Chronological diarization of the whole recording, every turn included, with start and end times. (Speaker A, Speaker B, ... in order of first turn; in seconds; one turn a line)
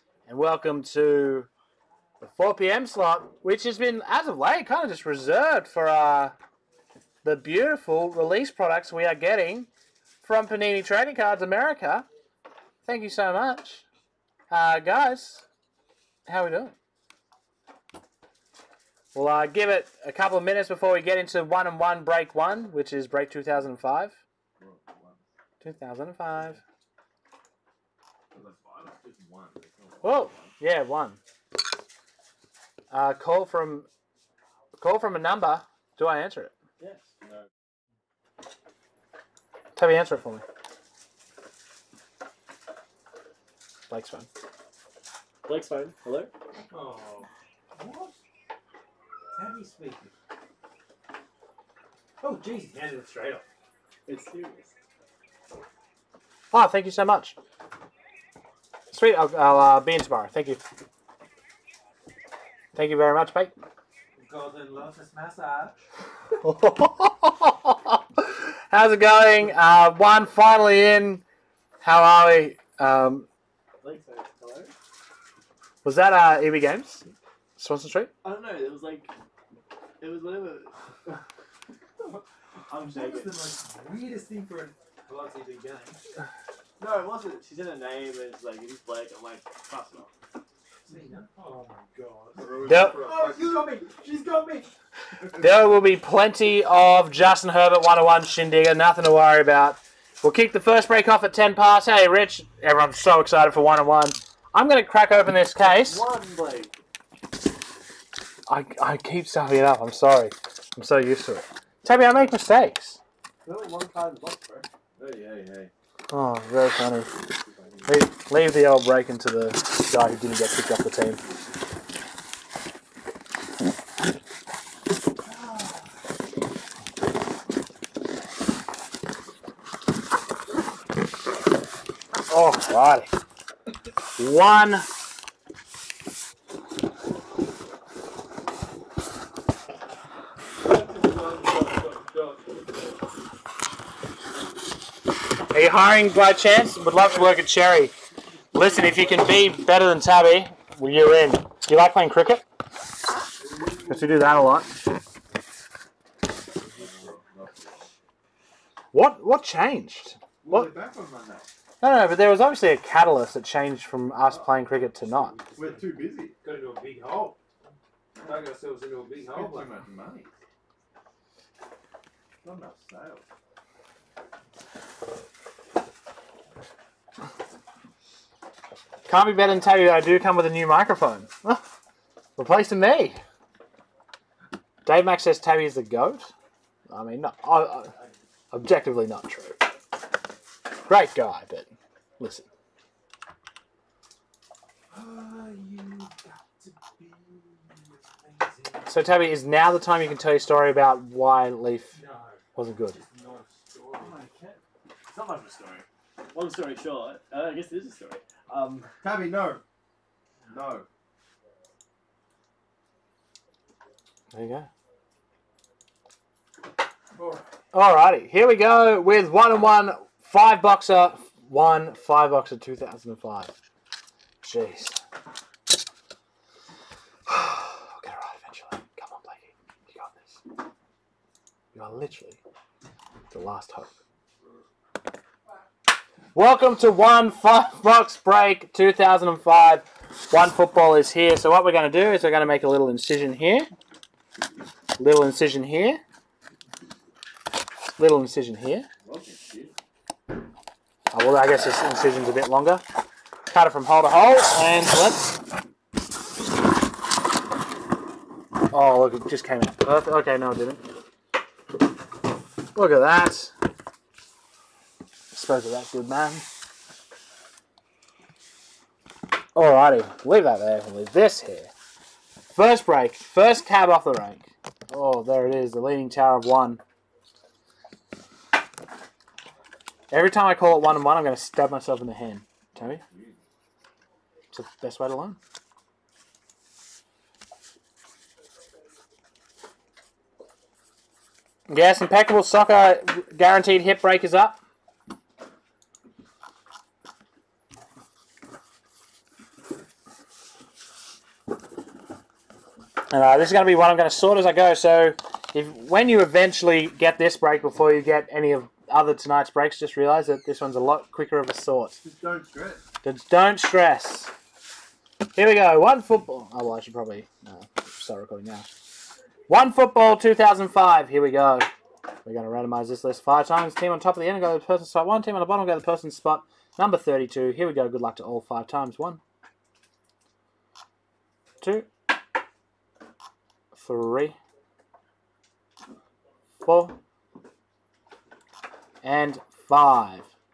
Speaker A: 0.3-1.5
Speaker A: 2.2-6.3
Speaker A: 7.2-9.7
Speaker A: 10.2-12.1
Speaker A: 12.8-13.8
Speaker A: 14.5-15.4
Speaker A: 16.2-16.7
Speaker A: 19.1-24.1
Speaker B: 24.6-25.2
Speaker A: 25.6-26.6
Speaker B: 28.3-30.5
Speaker A: 30.0-31.2
Speaker A: 32.9-33.9
Speaker A: 34.8-36.5
Speaker B: 36.8-37.1
Speaker A: 39.8-40.4
Speaker A: 43.9-44.3
Speaker B: 45.4-46.3
Speaker C: 46.7-48.1
Speaker C: 49.3-50.1
Speaker C: 52.2-53.4
Speaker B: 54.1-54.7
Speaker A: 56.5-57.4
Speaker A: 58.9-60.6
Speaker A: 62.7-63.5
Speaker C: 64.2-65.7
Speaker A: 66.4-71.2
Speaker A: 71.8-73.3
Speaker B: 73.8-74.7
Speaker A: 75.8-77.0
Speaker A: 77.6-78.1
Speaker B: 78.2-79.1
Speaker B: 80.0-81.2
Speaker B: 82.7-83.4
Speaker C: 82.8-86.0
Speaker B: 86.8-90.1
Speaker C: 90.8-94.7
Speaker D: 92.4-93.5
Speaker A: 92.7-93.0
Speaker A: 95.4-106.0
Speaker B: 105.6-106.7
Speaker A: 108.5-113.0
Speaker B: 113.4-114.7
Speaker D: 115.0-115.7
Speaker A: 116.1-117.2
Speaker D: 117.5-117.9
Speaker A: 117.8-121.2
Speaker A: 132.3-133.1
Speaker A: 134.2-134.9
Speaker C: 140.6-142.6
Speaker A: 145.5-147.9
Speaker A: 148.5-152.4
Speaker D: 153.4-154.2
Speaker A: 153.9-154.7
Speaker D: 156.8-157.7
Speaker A: 158.9-160.7
Speaker D: 160.4-161.5
Speaker A: 161.8-165.3
Speaker C: 165.3-167.4
Speaker D: 165.5-166.3
Speaker C: 168.2-169.7
Speaker D: 169.2-170.3
Speaker D: 172.4-173.2
Speaker A: 179.1-181.6
Speaker A: 182.4-183.2
Speaker A: 184.8-186.3
Speaker A: 186.9-187.9
Speaker A: 188.5-189.6
Speaker A: 190.9-191.7
Speaker A: 192.2-192.4
Speaker C: 196.0-197.0
Speaker C: 198.5-198.8
Speaker A: 198.8-202.0
Speaker C: 201.9-204.2
Speaker A: 202.5-203.0
Speaker B: 203.9-208.9
Speaker D: 209.0-209.6
Speaker D: 210.5-210.9
Speaker A: 214.3-214.7
Speaker D: 217.2-217.4
Speaker A: 217.7-223.5
Speaker A: 224.4-225.0
Speaker A: 227.3-230.4
Speaker A: 231.7-232.4
Speaker A: 233.3-233.9
Speaker A: 236.3-243.7
Speaker A: 245.0-246.0
Speaker A: 248.0-248.9
Speaker B: 249.1-249.7
Speaker A: 251.1-252.8
Speaker A: 253.5-255.4
Speaker A: 258.7-260.8
Speaker A: 262.7-263.5
Speaker A: 265.3-266.4
Speaker A: 269.5-271.7
Speaker A: 272.6-276.8
Speaker A: 280.1-283.0
Speaker B: 283.1-283.4
Speaker A: 284.5-285.4
Speaker A: 291.7-294.6
Speaker A: 303.1-312.0
Speaker D: 312.1-312.8
Speaker A: 313.0-314.3
Speaker A: 315.3-318.7
Speaker A: 319.5-321.7
Speaker A: 322.2-329.2
Speaker A: 331.6-331.9
Speaker A: 333.7-334.4
Speaker A: 336.6-337.0
Speaker A: 339.0-340.3